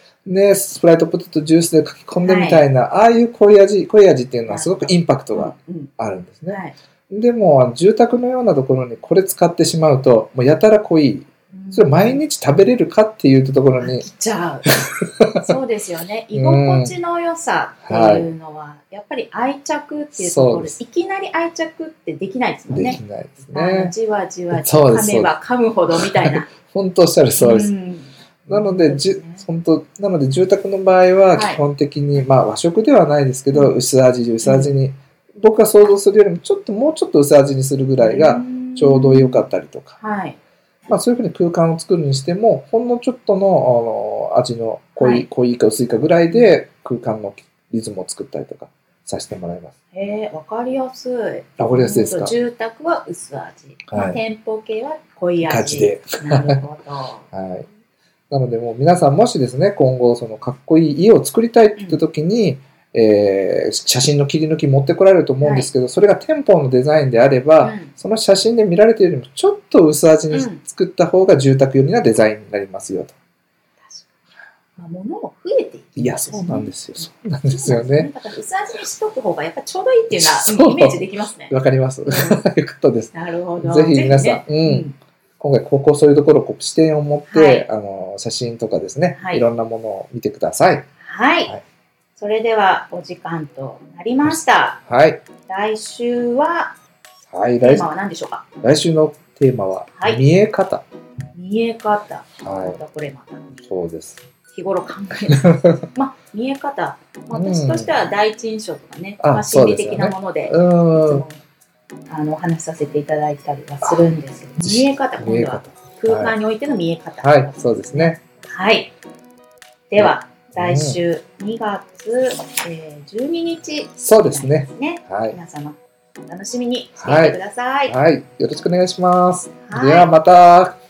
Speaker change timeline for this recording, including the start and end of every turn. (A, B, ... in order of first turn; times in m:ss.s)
0:00.2-0:14.1 A
0:02.2-0:02.6 B
0:04.5-0:05.9 B
0:06.5-0:06.8 B
0:11.5-0:12.2 B
0:13.8-0:14.7 B
0:14.7-0:15.5 A
0:15.4-0:26.5 B
0:16.3-0:16.9 A
0:17.8-0:18.3 A
0:20.1-0:20.8 A
0:22.7-0:23.9 A
0:24.5-0:25.3 A
0:25.9-0:27.7 A
0:27.4-0:29.4 B
0:28.5-0:40.0 A
0:31.3-0:31.6 B
0:34.4-0:34.7 B
0:38.0-0:40.4 B
0:40.9-0:49.7 A
0:45.0-0:45.3 B
0:46.3-0:46.5 B
0:49.9-0:57.2 B
0:51.6-0:52.3 A
0:53.9-0:54.2 A
0:55.4-0:56.6 A
0:57.3-0:57.7 A
0:58.3-1:13.2 A
1:05.4-1:05.7 B
1:07.6-1:07.9 B
1:10.3-1:10.6 B
1:13.8-1:14.1 B
1:14.8-1:21.5 B
1:16.0-1:18.1 A
1:20.1-1:24.9 A
1:22.0-1:22.4 B
1:23.1-1:24.9 B
1:25.4-1:30.9 A
1:27.3-1:27.7 B
1:29.2-1:29.4 B
1:31.0-1:31.5 B
1:32.2-1:34.8 B
1:34.2-1:35.2 A
1:35.5-1:36.7 B
1:37.3-1:37.9 A
1:37.6-1:38.4 B
1:38.6-1:40.8 A
1:39.9-1:40.2 B
1:41.3-1:43.6 B
1:42.4-1:42.8 A
1:43.6-1:44.2 A
1:44.5-1:51.4 B
1:47.3-1:47.9 A
1:49.2-1:51.2 A
1:52.1-1:58.9 B
1:54.6-1:56.4 A
1:57.2-1:58.2 A
1:59.9-2:07.9 B
2:00.0-2:01.0 A
2:04.0-2:05.4 A
2:07.0-2:10.8 A
2:09.6-2:10.1 B